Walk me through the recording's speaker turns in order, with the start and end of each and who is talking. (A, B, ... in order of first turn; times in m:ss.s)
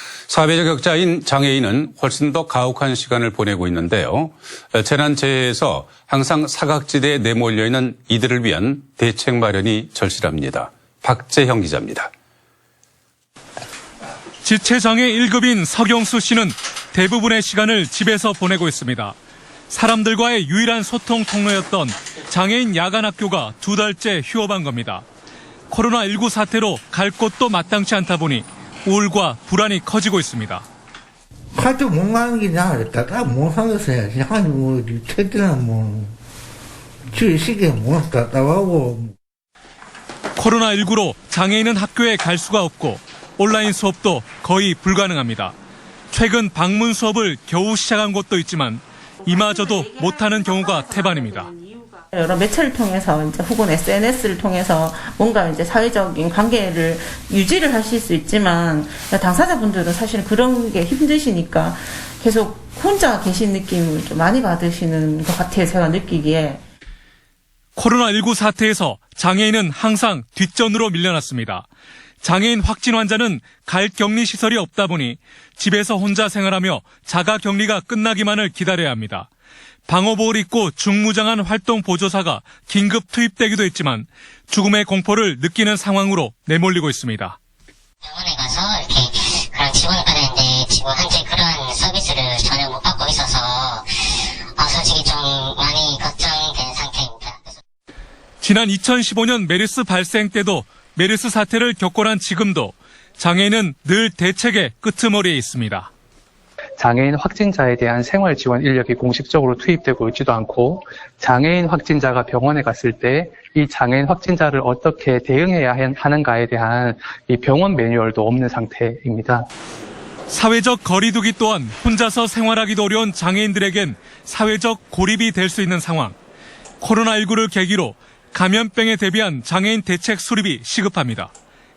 0:00.3-0:12.1 A
0:14.4-0:19.2 B
0:19.7-0:25.0 B
0:25.7-0:30.6 B
0:31.5-0:36.1 C
0:37.1-0:39.1 C
0:40.4-0:45.5 B
0:46.1-0:51.5 B
0:52.1-1:06.6 D
1:07.8-1:11.6 B
1:12.2-1:19.3 B
1:19.9-1:27.4 B
1:28.0-1:37.6 E
1:38.4-1:45.9 B
1:46.8-1:59.5 F
2:00.3-2:06.1 B
2:06.8-2:11.3 B